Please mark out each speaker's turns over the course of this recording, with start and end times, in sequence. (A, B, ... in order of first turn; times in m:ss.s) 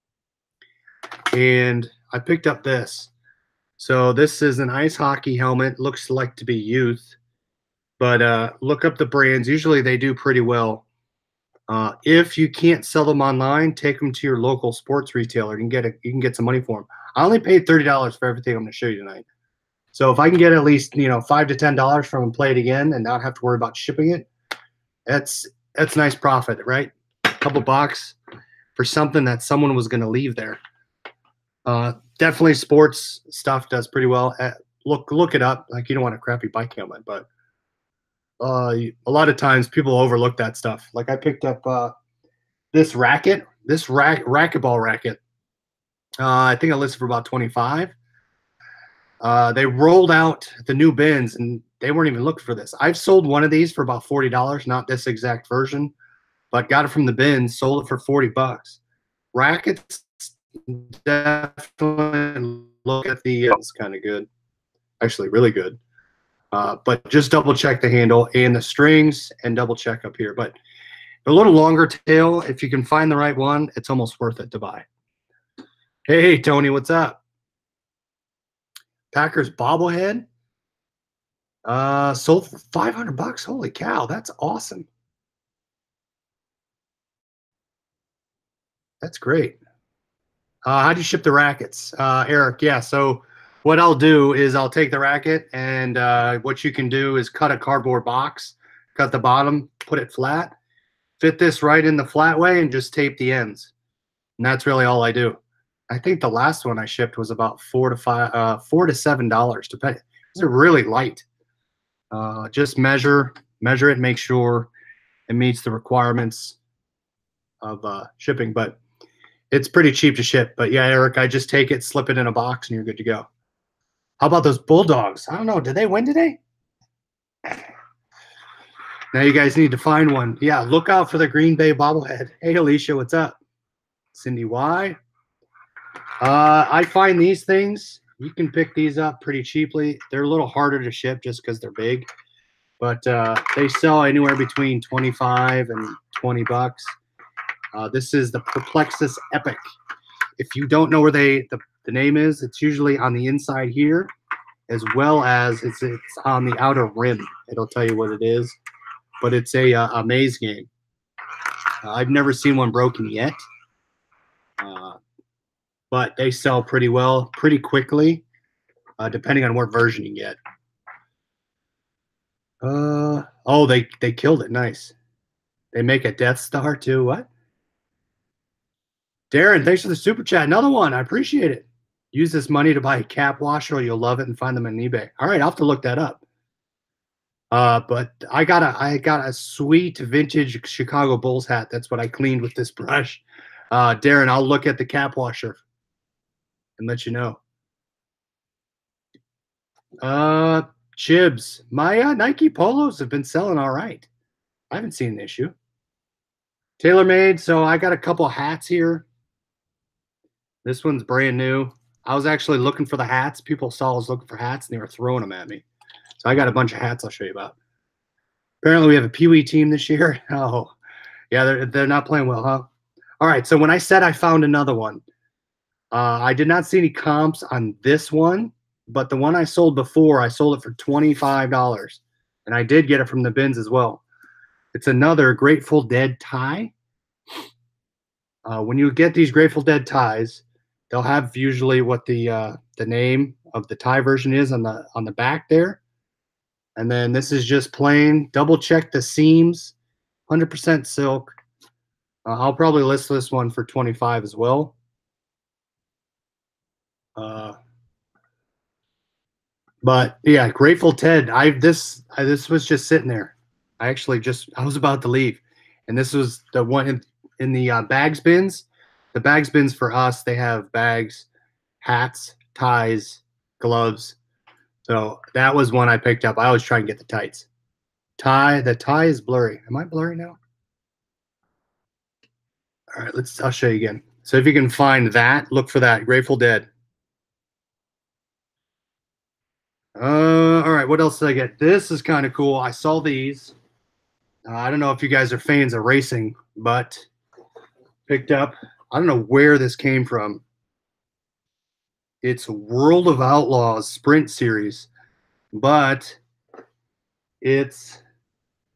0:01.3-0:03.1 A
0:03.8-0:07.1 A
0:08.0-0:10.8 A
0:11.7-0:19.2 A
0:19.9-0:24.3 A
0:25.1-0:28.2 A
0:28.7-0:30.6 A
0:31.6-0:37.3 A
0:38.4-0:41.9 A
0:42.7-0:45.2 A
0:46.2-0:47.9 A
0:49.2-0:55.9 A
0:56.5-0:58.8 A
0:59.3-1:04.3 A
1:05.0-1:05.8 A
1:06.5-1:10.5 A
1:11.2-1:14.8 A
1:16.1-1:17.2 A
1:19.1-1:20.3 A
1:21.6-1:24.9 A
1:29.0-1:29.6 A
1:30.6-1:40.5 A
1:41.2-1:43.7 A
1:44.4-1:51.2 A
1:52.1-1:54.7 A
1:55.3-1:56.6 A
1:57.6-1:58.8 A
1:59.5-2:03.2 A
2:04.2-2:06.4 A
2:09.1-2:13.4 A
2:14.1-2:15.0 A
2:16.2-2:22.0 A
2:22.8-2:26.9 A
2:27.7-2:29.6 A
2:30.4-2:34.1 A
2:34.7-2:38.6 A
2:39.2-2:40.7 A
2:41.8-2:43.4 A
2:44.6-2:45.0 A
2:45.9-2:48.2 A
2:49.0-2:50.4 A
2:52.6-2:54.9 A
2:55.7-2:57.3 A
2:59.3-3:06.2 A
3:07.5-3:15.6 A
3:16.8-3:17.4 A
3:20.0-3:24.1 A
3:24.7-3:25.5 A
3:26.8-3:29.1 A
3:30.6-3:35.6 A
3:36.2-3:37.6 A
3:38.6-3:40.7 A
3:41.3-3:42.7 A
3:43.2-3:45.0 A
3:45.9-3:54.0 A
3:54.7-3:56.7 A
3:58.4-4:05.8 A
4:06.8-4:09.7 A
4:10.3-4:11.3 A
4:12.2-4:14.7 A
4:17.2-4:17.6 A
4:19.8-4:31.3 A
4:31.8-4:34.2 A
4:34.8-4:37.5 A
4:38.2-4:40.4 A
4:42.9-4:46.7 A
4:50.0-4:53.5 A
4:54.4-4:57.1 A
4:58.1-5:00.4 A
5:02.2-5:04.9 A
5:05.5-5:06.2 A
5:07.4-5:08.0 A